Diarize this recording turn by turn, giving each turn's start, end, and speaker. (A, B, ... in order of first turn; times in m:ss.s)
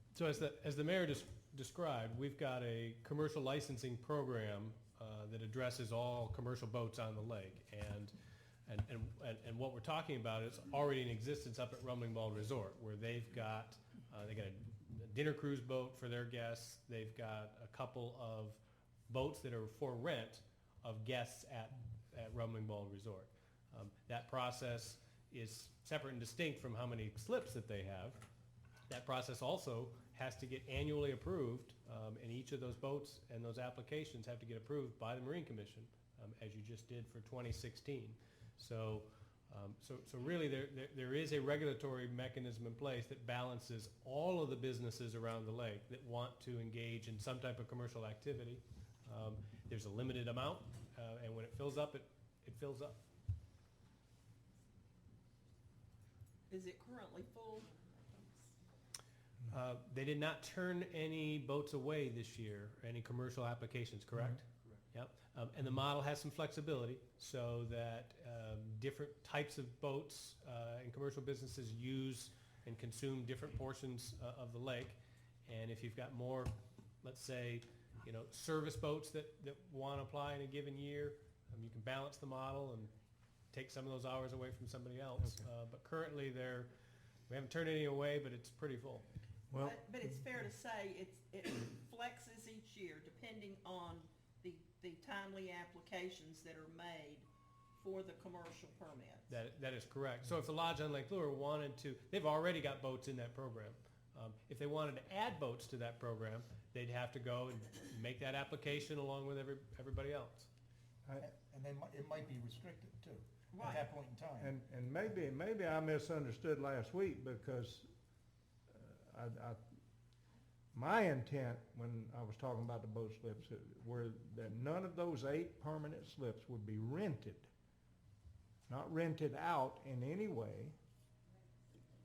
0:00.1-0:08.1 A
0:08.7-0:28.2 A
0:28.9-0:53.0 A
0:56.5-0:58.5 B
0:59.5-1:22.9 A
1:23.5-1:26.7 A
1:27.3-1:29.0 A
1:29.5-1:29.8 C
1:29.6-1:39.3 B
1:39.3-1:50.5 A
1:51.2-1:54.5 D
1:53.5-1:53.8 B
1:54.4-1:57.9 C
1:58.7-1:59.6 C
2:00.7-2:07.5 C
2:08.7-2:10.7 C